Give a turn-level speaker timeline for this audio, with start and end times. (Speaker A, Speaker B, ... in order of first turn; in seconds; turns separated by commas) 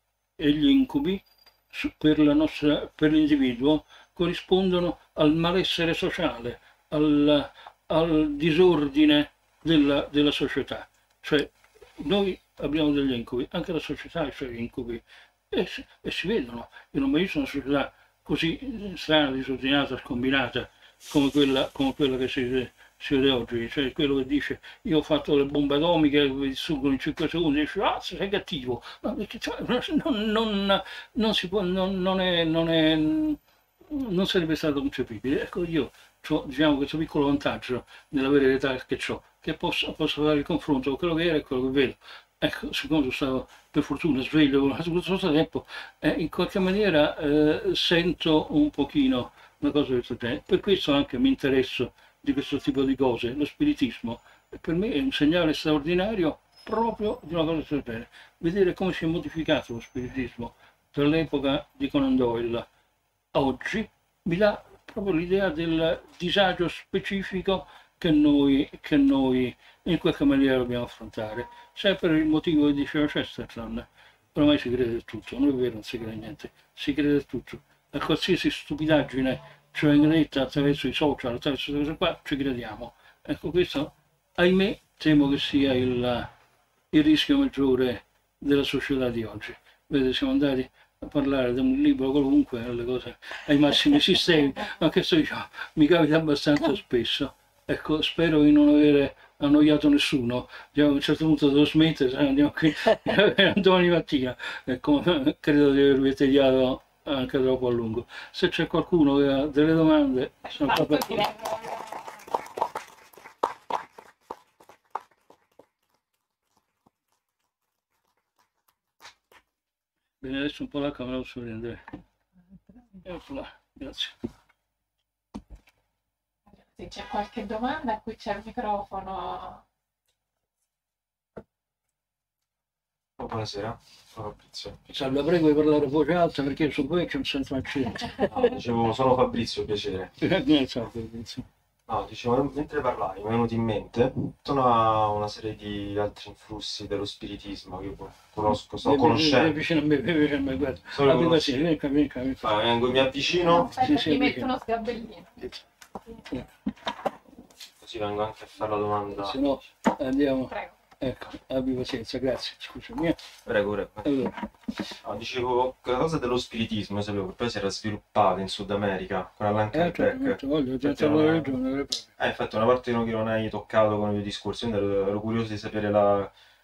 Speaker A: 0.4-33.4, Speaker A: 33.9-62.7, Speaker A: 63.3-86.3, Speaker A: 86.9-111.3, Speaker B: 110.7-112.0, Speaker A: 120.2-121.8, Speaker A: 123.0-124.2, Speaker B: 126.7-129.6, Speaker C: 133.2-134.8, Speaker A: 134.9-138.3, Speaker C: 138.2-140.1, Speaker A: 140.2-141.5, Speaker C: 141.9-149.6, Speaker A: 148.8-154.5, Speaker C: 150.9-151.6, Speaker C: 152.4-153.7, Speaker B: 153.4-155.4, Speaker C: 157.8-159.3, Speaker A: 159.1-163.2, Speaker C: 163.5-164.1, Speaker A: 164.0-164.4, Speaker C: 165.0-171.5, Speaker A: 169.7-172.1, Speaker C: 172.2-176.3